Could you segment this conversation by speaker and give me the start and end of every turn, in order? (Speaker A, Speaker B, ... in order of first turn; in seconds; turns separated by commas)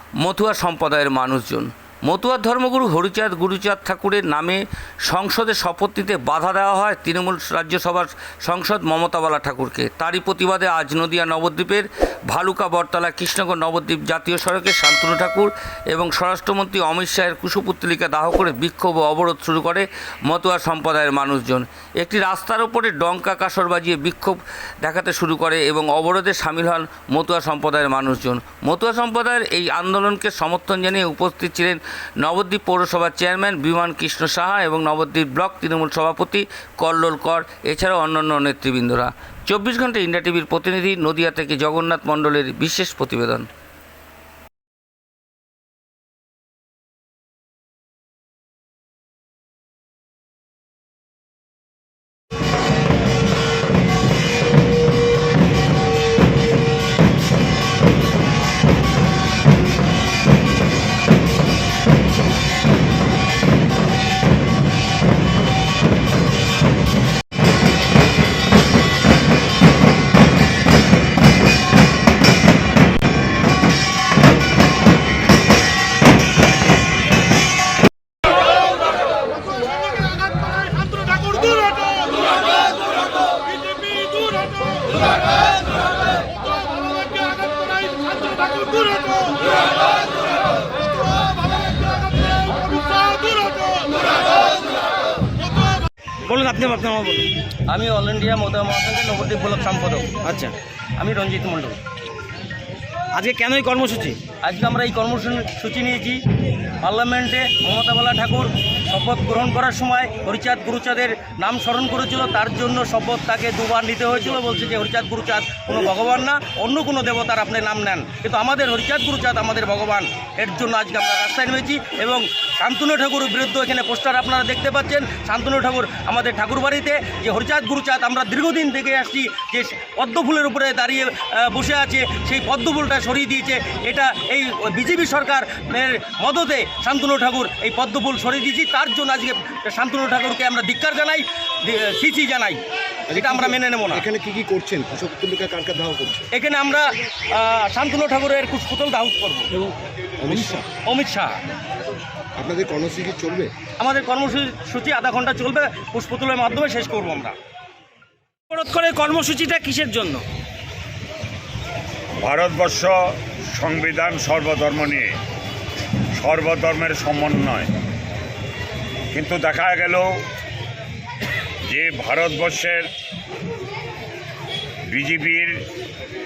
Speaker A: 0.2-43.5, Speaker B: 96.2-97.3, Speaker C: 97.7-100.1, Speaker B: 100.2-100.5, Speaker C: 101.0-101.8, Speaker B: 103.1-104.2, Speaker C: 104.4-106.2, Speaker C: 106.8-142.6, Speaker D: 143.1-146.3, Speaker C: 143.1-144.1, Speaker C: 146.3-149.5, Speaker D: 150.2-150.7, Speaker C: 150.8-151.4, Speaker D: 152.4-153.5, Speaker C: 153.8-157.3, Speaker B: 158.5-160.2, Speaker E: 162.2-165.1, Speaker E: 166.2-167.7, Speaker E: 169.1-170.1, Speaker E: 171.7-172.8, Speaker E: 174.9-175.6